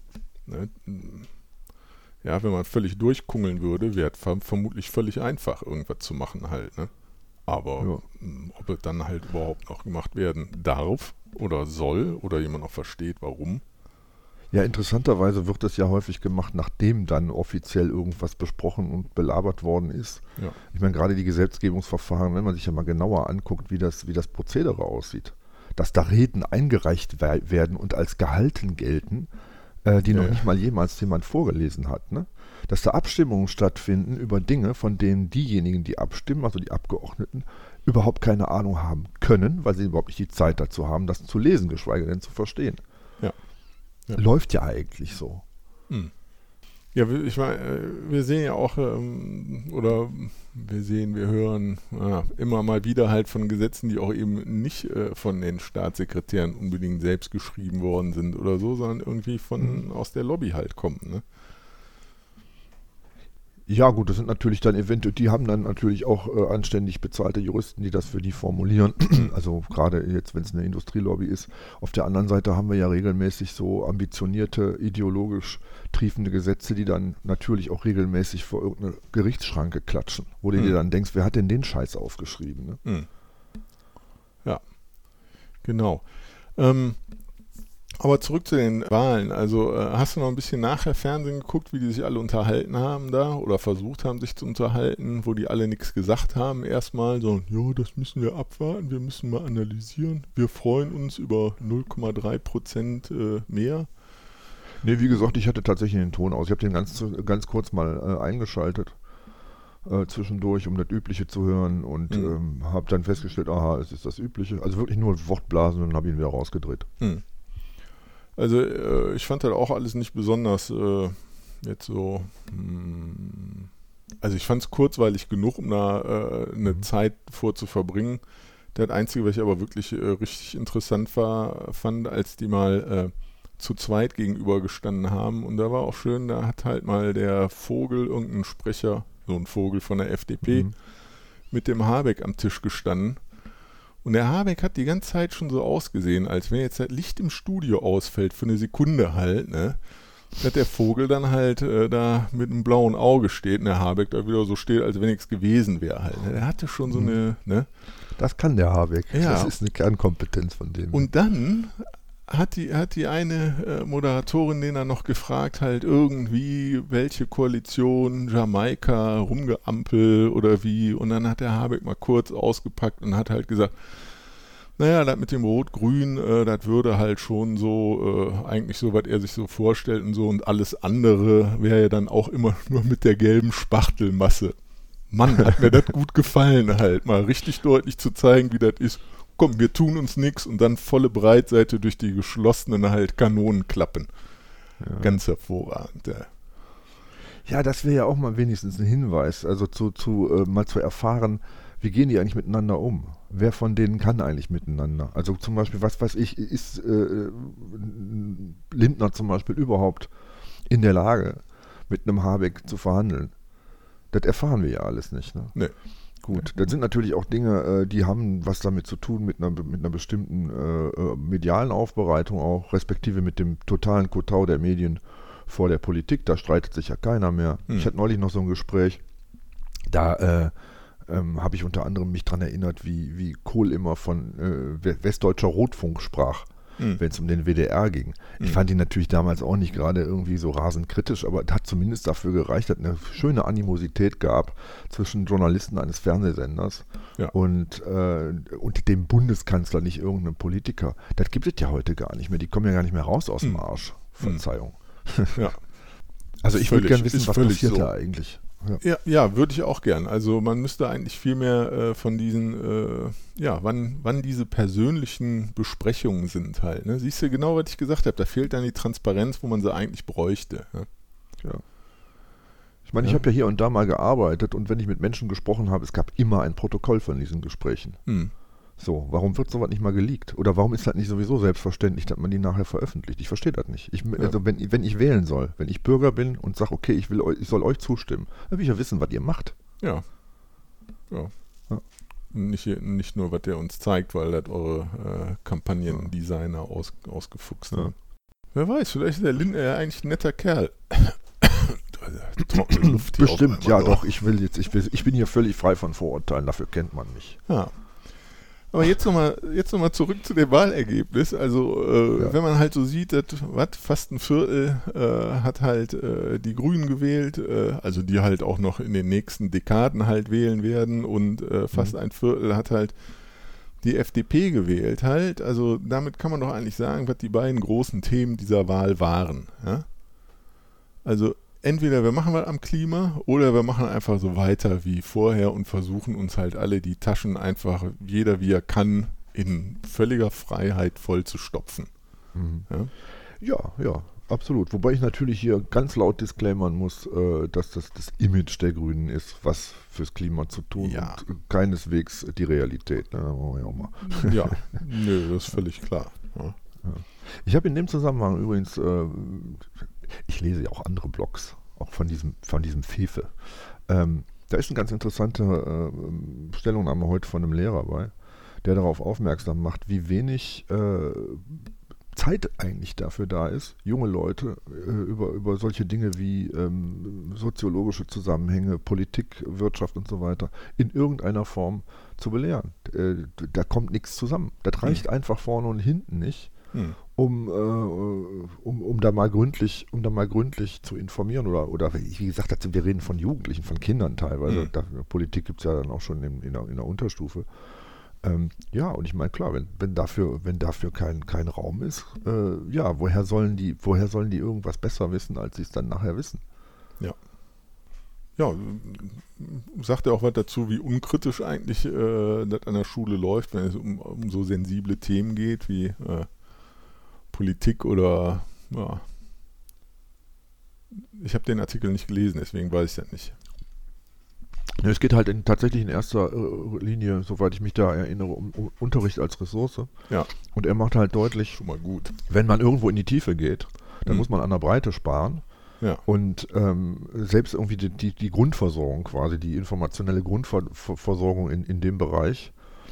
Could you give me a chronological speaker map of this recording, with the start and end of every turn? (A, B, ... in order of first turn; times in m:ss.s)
0:00.4-0:01.3 A
0:02.2-0:06.9 A
0:07.4-0:13.6 A
0:14.5-0:29.3 B
0:29.8-0:42.8 B
0:30.1-0:30.4 A
0:44.1-0:45.4 B
0:46.9-1:01.2 A
0:59.6-0:59.8 B
1:03.7-1:22.8 B
1:24.4-1:27.2 A
1:28.0-1:43.9 A
1:44.8-1:49.0 B
1:49.8-1:56.9 B
1:52.1-1:52.4 A
1:58.4-2:03.7 A
2:04.2-2:23.3 A
2:20.4-2:20.7 B
2:24.0-2:37.7 A
2:36.9-2:37.2 B
2:38.1-2:41.1 B
2:39.1-2:39.5 A
2:40.9-3:14.2 A
3:14.8-3:15.1 B
3:14.9-3:16.3 A
3:17.4-3:30.1 B
3:30.7-3:33.3 B
3:34.1-3:35.6 B
3:36.2-3:49.0 B
3:49.9-4:15.5 B
4:15.3-4:15.7 A
4:16.4-4:18.8 B
4:16.5-4:17.9 A
4:18.8-4:30.9 A
4:32.9-4:38.0 B
4:38.0-4:38.3 A
4:38.8-4:49.5 B
4:49.8-4:50.1 A
4:51.1-4:51.3 A
4:52.3-4:58.0 A
4:58.5-5:04.0 A
5:02.9-5:07.4 B
5:07.5-5:29.9 A
5:31.0-5:41.9 A
5:42.3-5:42.7 B
5:42.7-5:42.9 A
5:43.3-5:54.8 B
5:50.8-5:51.2 A
5:54.0-5:56.6 A
5:56.8-6:26.5 B
6:27.1-6:37.5 B
6:38.2-6:46.4 B
6:48.4-6:59.0 A
7:01.0-7:03.4 A
7:04.8-7:11.6 B
7:11.6-7:12.1 A
7:12.1-7:15.4 B
7:16.0-7:22.5 B